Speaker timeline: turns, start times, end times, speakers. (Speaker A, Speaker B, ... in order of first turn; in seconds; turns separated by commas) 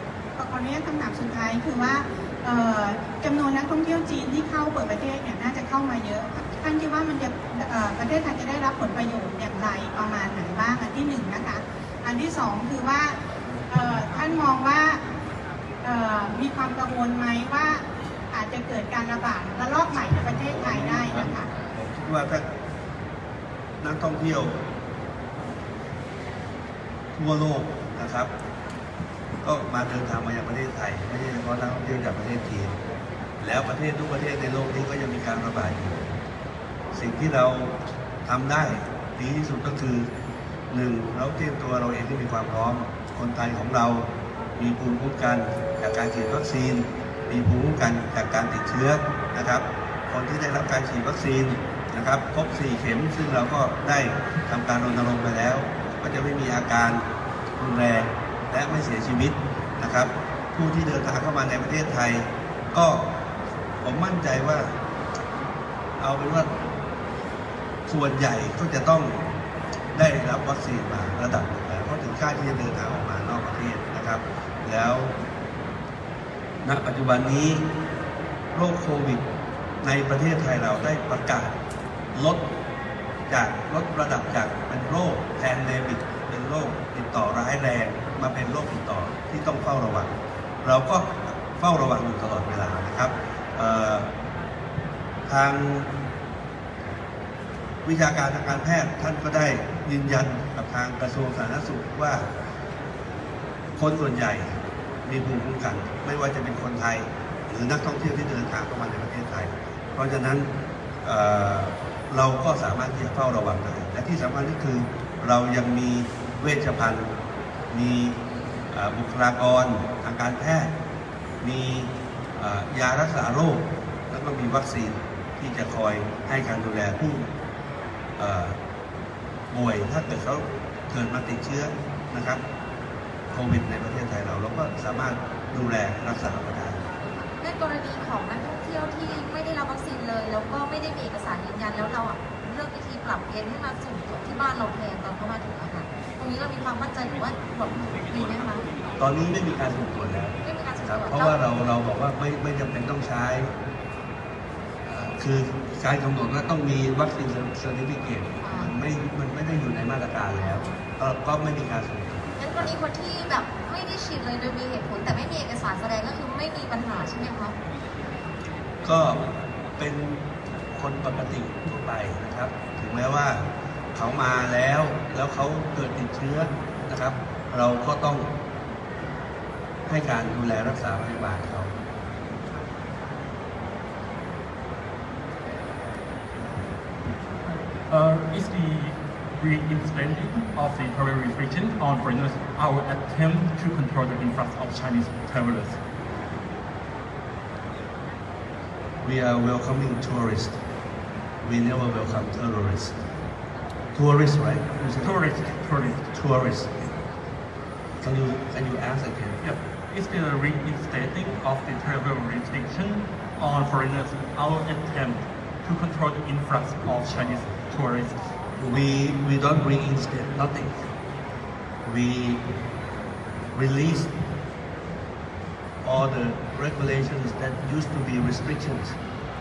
Speaker A: 0.4-15.0, Speaker A: 15.8-21.5, Speaker B: 20.5-22.4, Speaker B: 23.8-24.5, Speaker B: 27.1-28.3, Speaker B: 29.4-32.8, Speaker B: 33.4-36.0, Speaker B: 36.9-40.1, Speaker B: 40.7-57.0, Speaker B: 57.6-63.2, Speaker B: 63.8-64.7, Speaker B: 66.0-66.5, Speaker B: 67.9-69.2, Speaker B: 69.9-75.1, Speaker B: 76.6-77.7, Speaker B: 78.5-79.2, Speaker B: 79.8-81.5, Speaker B: 82.1-82.5, Speaker B: 83.3-90.1, Speaker B: 90.6-94.1, Speaker B: 95.3-95.9, Speaker B: 97.8-102.3, Speaker B: 103.8-104.5, Speaker B: 105.0-110.5, Speaker B: 111.0-117.1, Speaker B: 117.7-118.2, Speaker B: 118.7-120.7, Speaker B: 121.4-127.3, Speaker B: 128.2-128.6, Speaker B: 129.5-132.4, Speaker B: 133.3-136.8, Speaker C: 137.3-148.7, Speaker B: 149.0-153.5, Speaker C: 150.4-151.4, Speaker B: 154.8-162.7, Speaker C: 158.4-158.7, Speaker C: 160.3-160.8, Speaker C: 162.4-167.5, Speaker B: 168.8-170.2, Speaker B: 170.8-178.3, Speaker B: 179.9-181.7, Speaker D: 187.4-195.8, Speaker B: 199.0-200.6, Speaker B: 201.4-202.9, Speaker B: 203.9-205.1, Speaker D: 205.0-206.1, Speaker B: 206.1-206.9, Speaker B: 208.0-209.4, Speaker D: 209.4-218.3, Speaker B: 218.6-220.8, Speaker B: 221.8-222.4, Speaker B: 223.5-224.1, Speaker B: 225.8-228.9